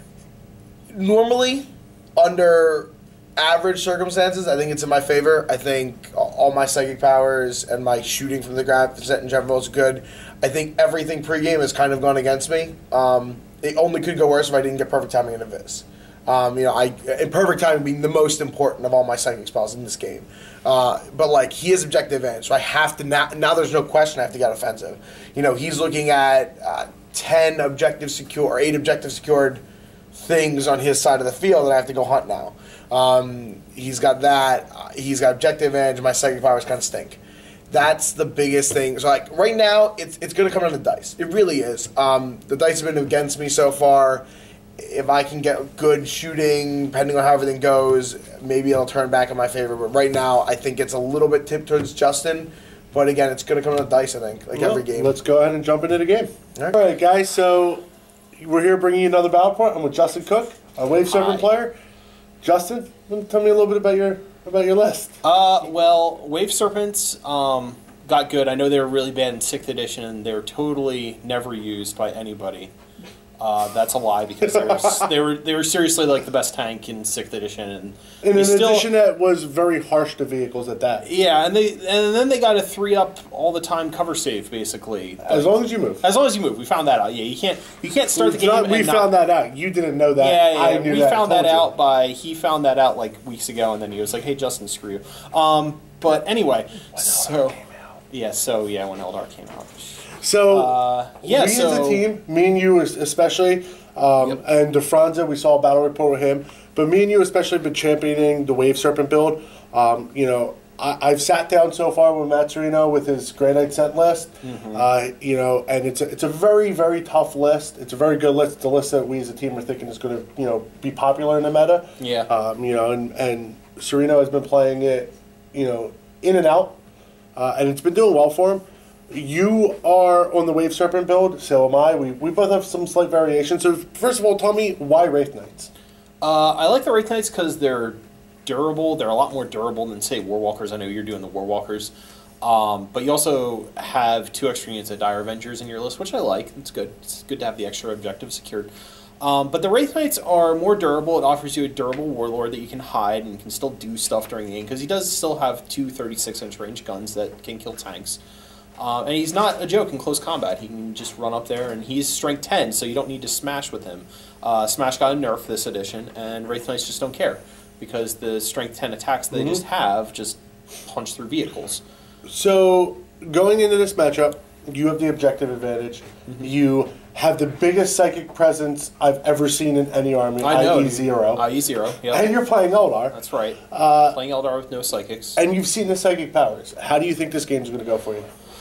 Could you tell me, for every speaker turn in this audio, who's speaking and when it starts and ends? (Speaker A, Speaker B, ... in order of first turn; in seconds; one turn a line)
Speaker A: 0.9-29.6
Speaker A: 30.1-37.2
Speaker A: 37.7-44.2
Speaker A: 44.8-55.1
Speaker B: 54.5-57.8
Speaker B: 58.4-61.8
Speaker C: 61.1-61.5
Speaker B: 62.4-65.2
Speaker C: 65.2-72.7
Speaker C: 73.4-78.9
Speaker B: 74.4-75.1
Speaker B: 78.2-81.1
Speaker C: 81.0-89.1
Speaker B: 85.2-86.0
Speaker B: 88.1-91.7
Speaker C: 90.2-97.6
Speaker B: 96.9-97.6
Speaker C: 98.1-102.0
Speaker B: 100.1-126.8
Speaker C: 114.4-114.8
Speaker C: 122.0-122.3
Speaker B: 127.3-135.7
Speaker C: 136.2-158.2
Speaker C: 158.8-171.8
Speaker B: 169.3-169.6
Speaker B: 172.2-181.4
Speaker C: 180.4-182.3
Speaker B: 182.1-183.2
Speaker C: 183.1-185.4
Speaker B: 183.7-184.2
Speaker B: 185.3-188.3